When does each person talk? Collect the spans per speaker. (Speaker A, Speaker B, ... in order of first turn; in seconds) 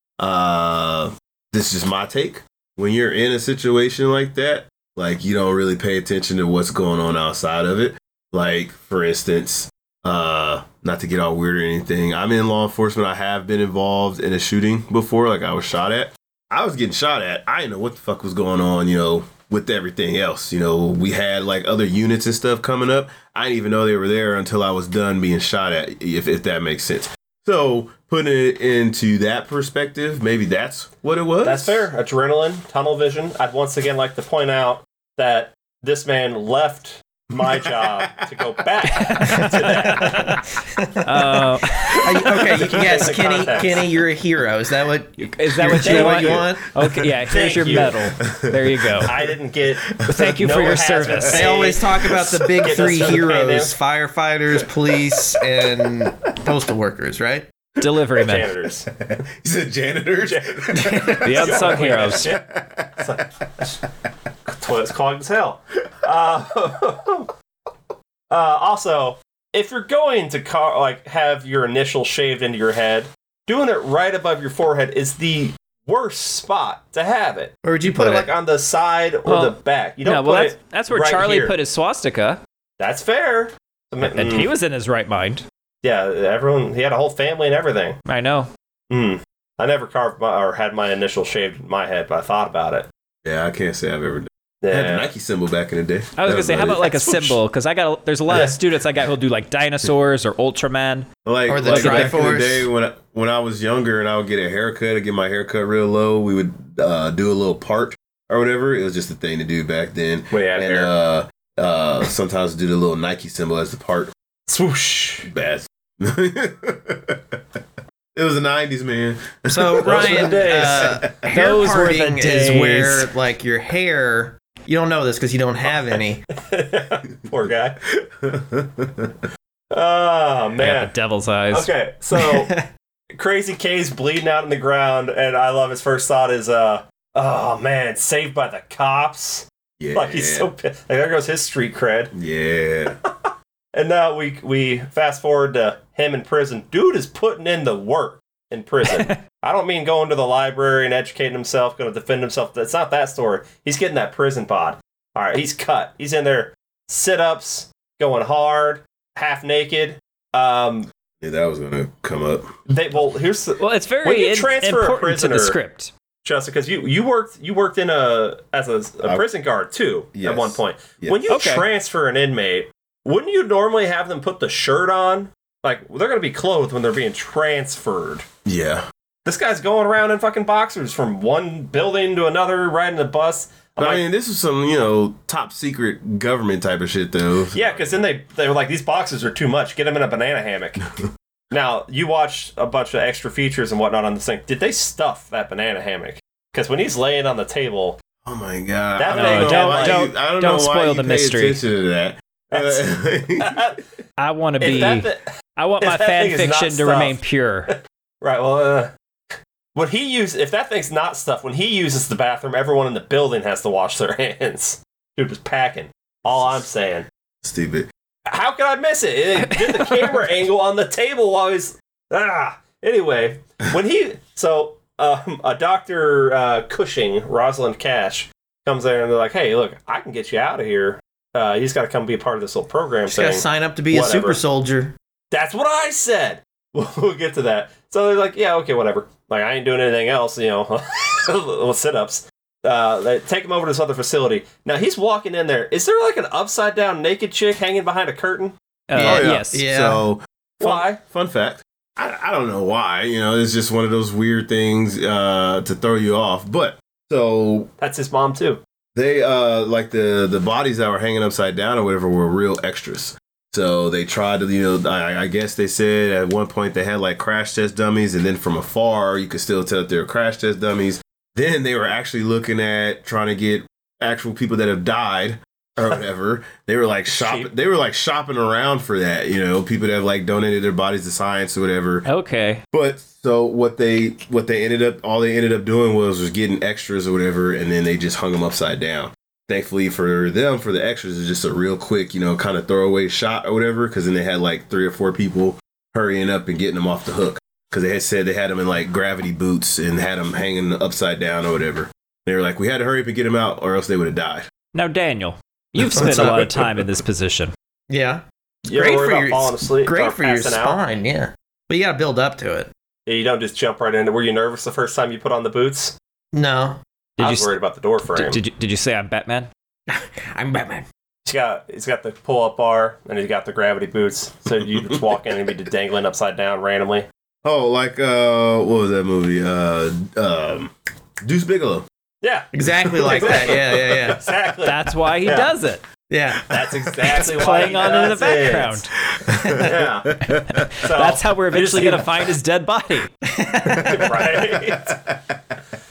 Speaker A: 0.2-31.9, 37.3-38.4, 46.7-47.1, 48.2-49.2, 49.9-50.4, 52.0-52.8, 58.9-63.9, 93.2-97.3, 101.2-114.1, 115.3-117.6, 118.2-121.3, 127.9-129.3, 139.8-140.5, 142.1-143.0, 161.2-162.5, 170.1-171.2, 178.5-178.8, 183.8-188.0, 198.2-203.6, 216.3-216.5, 217.4-217.9, 249.0-257.7, 258.9-282.1, 282.7-304.5, 306.0-306.9, 324.6-325.0, 327.4-331.9, 332.7-334.1, 339.1-340.7, 344.5-345.4
Speaker B: 31.4-40.4, 42.3-43.9, 45.8-46.5, 47.3-48.1, 49.0-53.7, 58.2-58.9, 60.2-62.4, 63.0-63.7, 64.5-67.3, 68.3-81.5, 82.8-84.5, 85.8-88.0, 88.9-92.9, 94.6-95.0, 110.3-110.9, 114.5-115.3, 119.8-121.0, 126.3-127.8, 129.7-130.9, 131.5-132.5, 133.1-142.1, 143.2-160.9, 162.7-165.6, 166.2-178.2, 179.3-184.0, 187.5-190.8, 191.5-198.0, 199.0-200.0, 202.5-202.9, 203.4-203.8, 204.6-205.3, 205.8-207.2, 207.7-208.9, 209.8-217.1, 218.3-234.4, 235.3-248.5, 250.6-251.0, 257.8-258.6, 277.2-277.5, 308.6-310.8, 313.1-315.9, 317.2-318.4, 321.3-327.1, 332.2-335.5, 336.5-338.8, 339.6-340.2, 340.8-342.2, 343.8-345.0
Speaker C: 38.9-40.4, 41.0-42.4, 45.2-49.1, 50.0-51.5, 57.8-58.5, 61.2-62.3, 79.3-82.4, 84.0-85.4, 88.1-88.5, 96.2-101.1, 101.6-102.2, 121.2-123.1, 130.6-131.7, 148.8-149.2, 163.6-165.9, 171.3-171.7, 199.1-201.6, 204.2-207.7, 219.5-220.2, 248.9-249.7, 282.1-282.6, 304.7-307.5, 317.2-317.5, 318.1-319.5, 334.6-335.8, 337.1-338.9, 340.3-343.1
Speaker D: 39.2-46.7, 51.3-57.5, 60.7-61.4, 77.6-78.3, 101.5-102.7, 119.5-126.2, 132.1-132.7, 233.1-234.9, 248.9-250.0, 305.9-306.5, 307.9-312.7, 316.3-316.8, 319.9-320.9, 332.5-334.2, 336.1-336.5, 339.4-339.7, 343.3-344.4